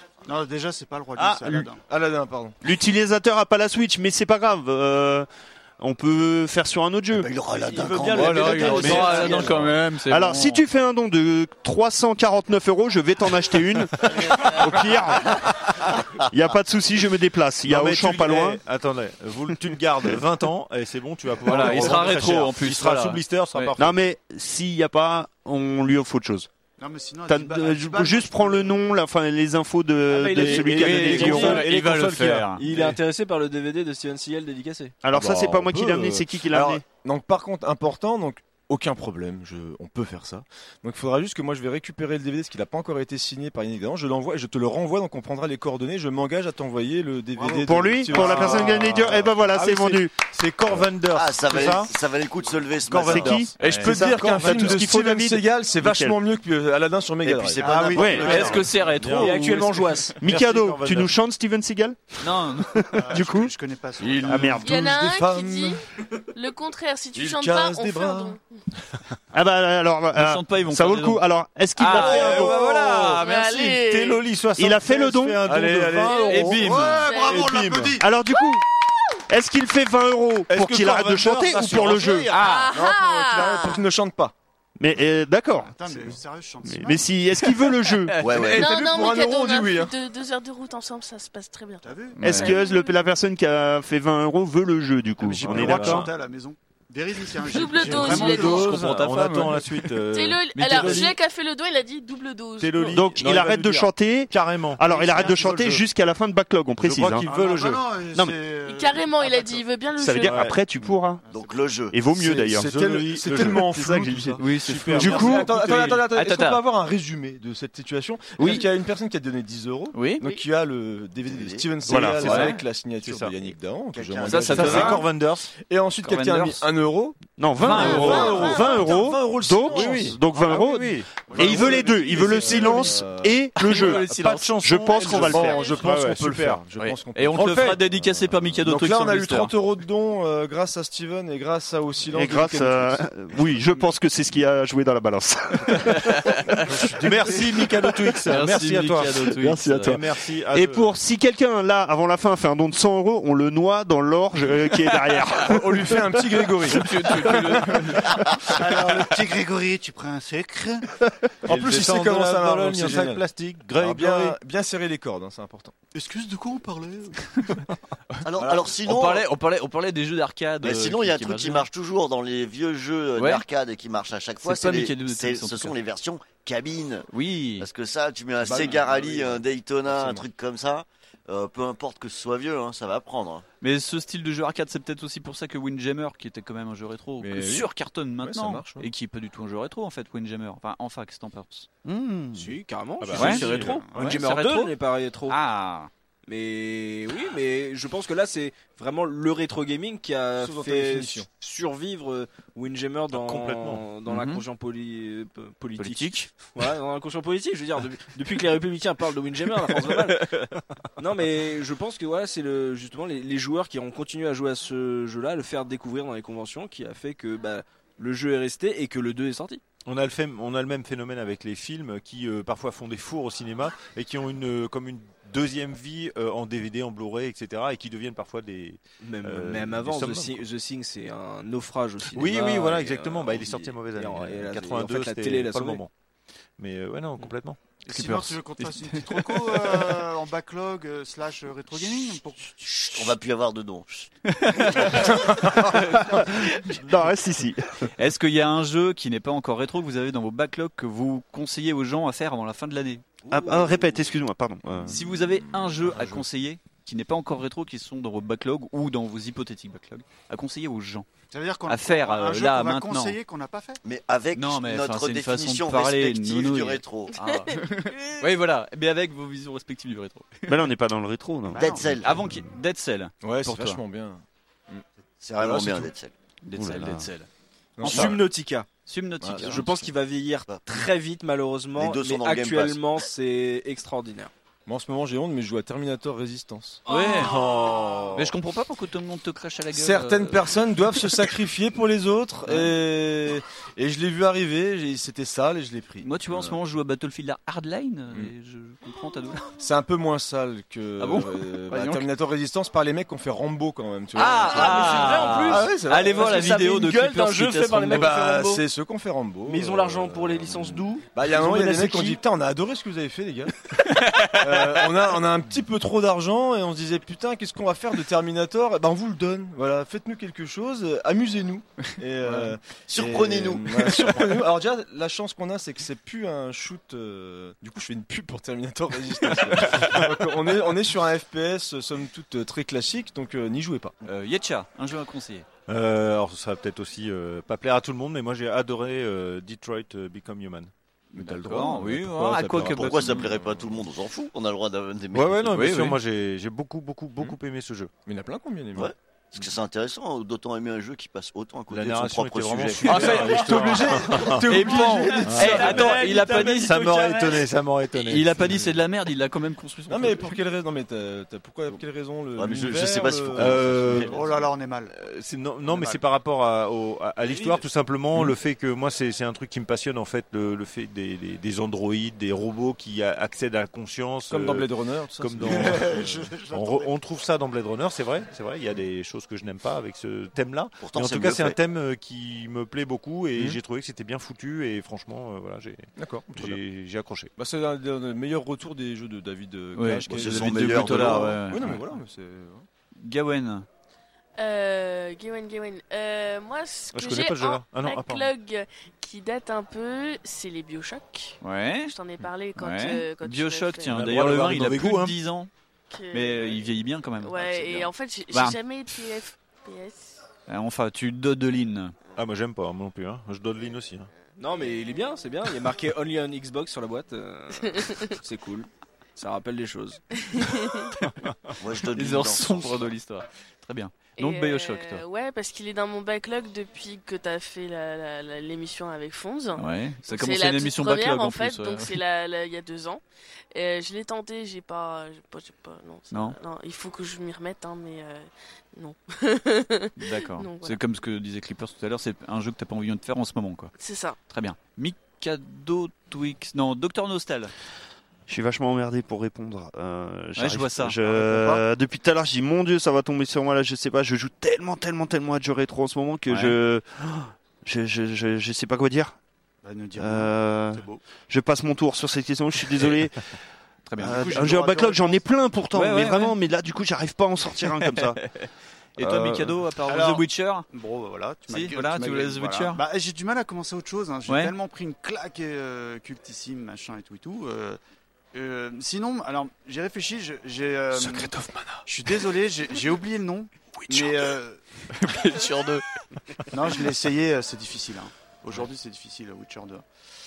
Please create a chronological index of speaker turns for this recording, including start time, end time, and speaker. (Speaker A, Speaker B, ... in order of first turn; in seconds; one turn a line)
Speaker A: 0.2-1.8
Speaker B: 1.1-1.7
Speaker C: 1.9-2.5
Speaker B: 2.6-5.3
Speaker B: 5.8-7.3
Speaker D: 7.1-9.7
Speaker C: 7.6-9.7
Speaker E: 7.7-9.7
Speaker F: 8.1-10.6
Speaker B: 8.7-9.1
Speaker B: 10.1-18.6
Speaker E: 17.6-24.0
Speaker F: 21.4-23.8
Speaker B: 21.6-22.2
Speaker B: 23.8-26.5
Speaker A: 26.8-28.8
Speaker B: 27.3-31.6
Speaker G: 30.1-31.7
Speaker E: 30.3-33.0
Speaker F: 30.4-32.6
Speaker G: 32.6-35.0
Speaker B: 35.0-36.8
Speaker C: 35.1-49.2
Speaker E: 47.4-51.9
Speaker B: 47.5-50.1
Speaker D: 51.1-53.4
Speaker E: 52.9-54.8
Speaker B: 52.9-56.1
Speaker C: 53.6-58.6
Speaker F: 53.6-54.0
Speaker E: 57.4-61.1
Speaker A: 57.6-58.6
Speaker B: 57.9-58.5
Speaker F: 58.2-60.1
Speaker G: 59.1-60.2
Speaker B: 60.2-63.5
Speaker F: 62.2-62.9
Speaker A: 62.9-64.6
Speaker C: 64.0-65.8
Speaker B: 64.3-64.8
Speaker H: 64.6-65.8
Speaker H: 66.3-68.4
Speaker C: 67.1-68.4
Speaker B: 69.3-72.7
Speaker F: 70.1-71.2
Speaker F: 71.8-73.8
Speaker E: 71.9-77.9
Speaker H: 73.2-74.2
Speaker B: 74.5-75.4
Speaker C: 75.4-77.7
Speaker F: 76.3-77.1
Speaker A: 76.6-78.1
Speaker H: 76.9-77.5
Speaker B: 78.0-78.6
Speaker B: 79.3-82.3
Speaker E: 80.5-82.5
Speaker C: 80.7-84.3
Speaker H: 82.3-83.8
Speaker B: 84.8-86.1
Speaker A: 85.5-87.1
Speaker B: 86.6-88.2
Speaker F: 87.6-88.2
Speaker D: 88.2-88.7
Speaker C: 88.2-89.9
Speaker H: 88.5-93.0
Speaker A: 91.8-92.2
Speaker B: 92.2-96.1
Speaker F: 92.2-92.5
Speaker A: 95.2-98.6
Speaker E: 95.3-96.1
Speaker H: 97.4-98.8
Speaker E: 97.6-101.2
Speaker F: 98.3-99.8
Speaker H: 100.1-103.0
Speaker E: 102.6-105.8
Speaker B: 102.9-107.3
Speaker A: 105.2-105.5
Speaker E: 106.8-107.9
Speaker A: 107.2-109.6
Speaker H: 108.7-110.4
Speaker B: 110.0-111.2
Speaker E: 110.2-110.6
Speaker A: 111.2-111.6
Speaker D: 111.3-112.0
Speaker B: 111.9-112.7
Speaker C: 112.1-125.0
Speaker E: 112.5-116.0
Speaker B: 113.3-115.5
Speaker F: 114.4-116.6
Speaker B: 118.4-118.7
Speaker F: 119.9-120.2
Speaker D: 121.2-121.8
Speaker B: 121.8-122.4
Speaker E: 122.0-123.4
Speaker F: 122.2-122.6
Speaker D: 124.0-125.0
Speaker F: 124.2-125.0
Speaker E: 124.4-125.5
Speaker C: 125.6-130.2
Speaker F: 126.0-126.6
Speaker B: 127.4-135.7
Speaker F: 127.6-128.5
Speaker H: 127.7-128.9
Speaker E: 129.7-133.0
Speaker A: 131.3-131.9
Speaker C: 131.3-133.5
Speaker E: 133.5-136.6
Speaker F: 133.6-135.1
Speaker H: 134.9-135.8
Speaker C: 135.1-143.0
Speaker F: 136.8-139.5
Speaker E: 137.4-137.7
Speaker B: 142.1-148.2
Speaker F: 145.9-146.5
Speaker E: 146.8-150.9
Speaker F: 148.3-150.0
Speaker B: 149.4-156.2
Speaker C: 155.3-158.2
Speaker F: 156.7-158.2
Speaker A: 158.4-161.0
Speaker E: 161.4-164.4
Speaker C: 161.4-163.2
Speaker C: 163.8-165.7
Speaker A: 165.9-167.4
Speaker D: 168.2-169.3
Speaker C: 168.4-168.7
Speaker F: 168.8-171.7
Speaker D: 170.6-183.4
Speaker F: 173.2-173.4
Speaker F: 174.4-175.7
Speaker F: 177.1-177.7
Speaker C: 178.4-180.3
Speaker F: 183.6-191.7
Speaker C: 187.2-188.9
Speaker B: 191.8-192.5
Speaker G: 192.3-195.4
Speaker E: 193.0-193.8
Speaker C: 193.1-193.8
Speaker F: 193.1-194.7
Speaker A: 193.8-194.2
Speaker F: 195.3-195.9
Speaker G: 196.3-210.2
Speaker C: 200.4-201.3
Speaker E: 203.1-203.9
Speaker F: 204.1-204.4
Speaker F: 205.8-206.2
Speaker G: 211.0-219.6
Speaker E: 219.8-230.4
Speaker G: 229.0-235.8
Speaker E: 232.1-235.9
Speaker E: 236.6-237.7
Speaker F: 237.9-239.6
Speaker A: 237.9-242.8
Speaker D: 242.6-244.1
Speaker F: 244.3-246.1
Speaker B: 245.5-247.9
Speaker F: 248.0-253.0
Speaker B: 253.3-255.0
Speaker C: 254.8-256.2
Speaker F: 254.8-261.1
Speaker A: 261.3-263.8
Speaker F: 261.7-263.2
Speaker D: 263.8-267.2
Speaker F: 264.3-270.7
Speaker H: 267.1-268.2
Speaker B: 270.5-271.8
Speaker A: 271.5-271.9
Speaker D: 271.6-272.2
Speaker F: 271.9-273.8
Speaker C: 273.2-274.8
Speaker D: 275.2-276.1
Speaker C: 275.4-275.9
Speaker F: 276.4-277.3
Speaker B: 276.5-277.1
Speaker C: 277.8-278.2
Speaker D: 277.8-278.2
Speaker G: 277.8-278.7
Speaker F: 278.9-279.7
Speaker C: 279.2-279.9
Speaker G: 279.4-284.3
Speaker D: 281.7-282.8
Speaker C: 284.6-288.3
Speaker F: 286.9-287.5
Speaker H: 286.9-288.0
Speaker F: 288.1-290.5
Speaker C: 289.7-296.6
Speaker F: 292.4-292.7
Speaker F: 296.0-299.4
Speaker C: 299.6-306.6
Speaker F: 301.0-302.1
Speaker F: 304.1-308.2
Speaker G: 304.1-308.6
Speaker C: 307.9-333.9
Speaker G: 309.4-312.2
Speaker F: 313.9-314.9
Speaker D: 322.9-324.2
Speaker F: 329.5-330.1
Speaker F: 334.0-335.5
Speaker E: 335.7-340.7
Speaker C: 341.1-343.8
Speaker F: 341.1-343.3
Speaker D: 342.6-345.6
Speaker E: 345.1-347.9
Speaker F: 345.5-346.0
Speaker C: 348.1-348.9
Speaker D: 348.8-353.7
Speaker E: 351.7-354.6
Speaker C: 352.8-356.8
Speaker F: 352.9-357.4
Speaker E: 355.2-358.7
Speaker G: 355.5-357.1
Speaker F: 357.9-360.4
Speaker C: 358.4-358.6
Speaker C: 359.9-364.2
Speaker D: 362.3-364.2
Speaker E: 363.4-364.2
Speaker A: 364.1-364.9
Speaker E: 364.9-387.3
Speaker A: 365.7-366.0
Speaker C: 374.3-376.3
Speaker A: 375.6-376.9
Speaker D: 380.8-381.6
Speaker C: 386.0-386.6
Speaker C: 387.4-392.6
Speaker F: 389.8-391.8
Speaker D: 390.1-391.4
Speaker F: 392.9-393.7
Speaker H: 394.4-404.0
Speaker E: 396.9-398.3
Speaker F: 401.4-401.9
Speaker F: 402.6-405.5
Speaker E: 403.9-405.2
Speaker H: 405.9-406.6
Speaker F: 406.1-408.6
Speaker H: 407.2-410.2
Speaker F: 410.5-411.9
Speaker E: 412.1-414.1
Speaker G: 414.4-420.2
Speaker H: 417.6-418.1
Speaker H: 420.3-420.9
Speaker D: 421.6-422.9
Speaker F: 421.8-425.0
Speaker H: 424.2-440.8
Speaker F: 429.6-432.0
Speaker F: 436.1-436.4
Speaker F: 440.0-443.7
Speaker H: 443.8-444.2
Speaker F: 444.3-447.5
Speaker B: 448.3-459.1
Speaker F: 450.4-451.0
Speaker A: 451.0-451.6
Speaker F: 456.3-456.6
Speaker A: 459.6-461.0
Speaker B: 460.0-463.3
Speaker F: 463.9-464.7
Speaker B: 464.0-468.2
Speaker A: 464.0-465.2
Speaker F: 465.7-466.4
Speaker F: 467.6-470.7
Speaker B: 469.0-469.6
Speaker A: 469.9-477.8
Speaker F: 471.5-472.8
Speaker F: 474.3-474.5
Speaker A: 478.3-481.3
Speaker C: 480.9-481.8
Speaker A: 481.9-484.6
Speaker F: 484.9-485.8
Speaker A: 486.5-489.8